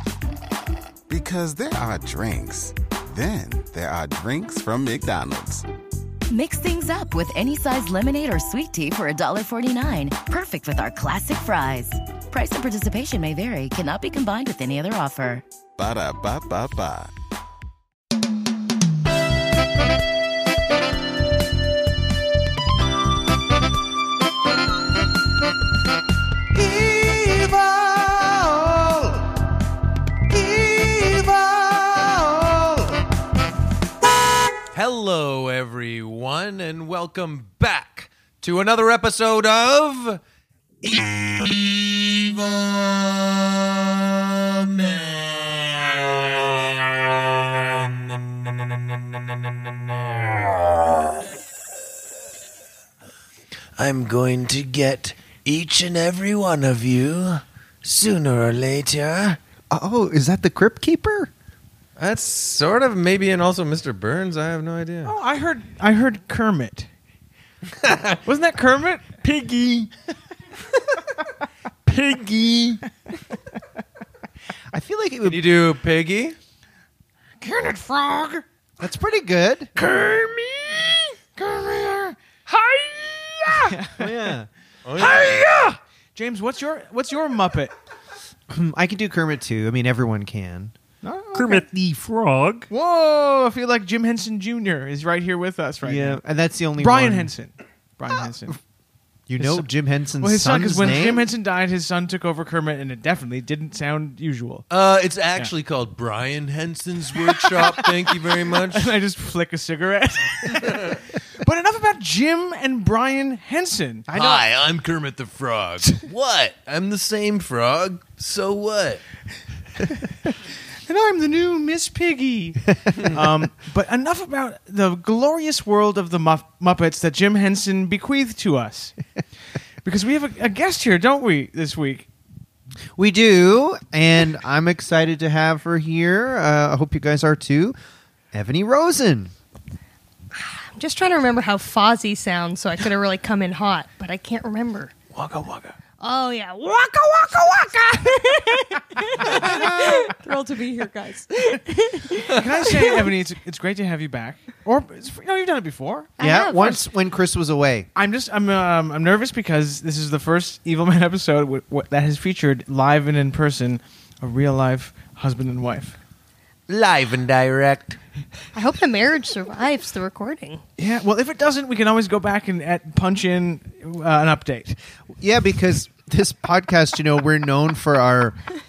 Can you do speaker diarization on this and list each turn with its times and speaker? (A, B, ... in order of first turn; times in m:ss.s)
0:01.1-0:05.6 A
0:06.3-0:15.4 B
0:15.8-0:17.1 A
0:26.8-0:29.1 C
0:30.3-0:32.3 C
0:34.7-0:40.2 C
0:40.8-0:43.5 C
0:44.4-0:45.9 C
0:48.0-0:48.4 C
0:50.1-0:50.9 C
0:53.8-0:59.4 C
0:59.7-1:01.3 D
1:02.0-1:05.1 C
1:05.0-1:06.9 E
1:07.7-1:08.2 C
1:08.2-1:09.2 E
1:09.2-1:09.9 C
1:11.9-1:12.8 C
1:14.7-1:15.5 D
1:15.2-1:16.4 C
1:17.4-1:18.4 E
1:18.8-1:19.7 D
1:19.8-1:20.9 C
1:21.4-1:22.1 E
1:22.5-1:23.6 C
1:23.7-1:24.1 E
1:24.0-1:24.5 D
1:24.8-1:25.7 C
1:25.0-1:25.5 E
1:26.1-1:27.7 E
1:28.5-1:30.7 D
1:31.0-1:31.6 E
1:31.3-1:32.7 C
1:32.7-1:36.2 E
1:35.8-1:37.3 D
1:36.8-1:38.6 E
1:39.3-1:41.3 D
1:39.4-1:39.7 E
1:40.2-1:44.6 E
1:44.7-1:48.9 C
1:47.5-1:47.9 E
1:48.7-1:54.0 E
1:54.1-1:59.0 C
1:54.1-1:54.5 D
2:00.9-2:08.9 E
2:09.8-2:12.1 E
2:13.0-2:17.8 D
2:18.3-2:19.3 D
2:20.3-2:24.9 F
2:25.1-2:25.8 E
2:26.0-2:33.0 F
2:29.2-2:30.0 E
2:32.3-2:36.1 E
2:36.2-2:36.9 F
2:36.2-2:37.9 D
2:38.0-2:46.0 E
2:46.7-2:48.0 C
2:48.5-2:50.6 F
2:50.8-2:54.8 E
2:55.2-2:58.4 D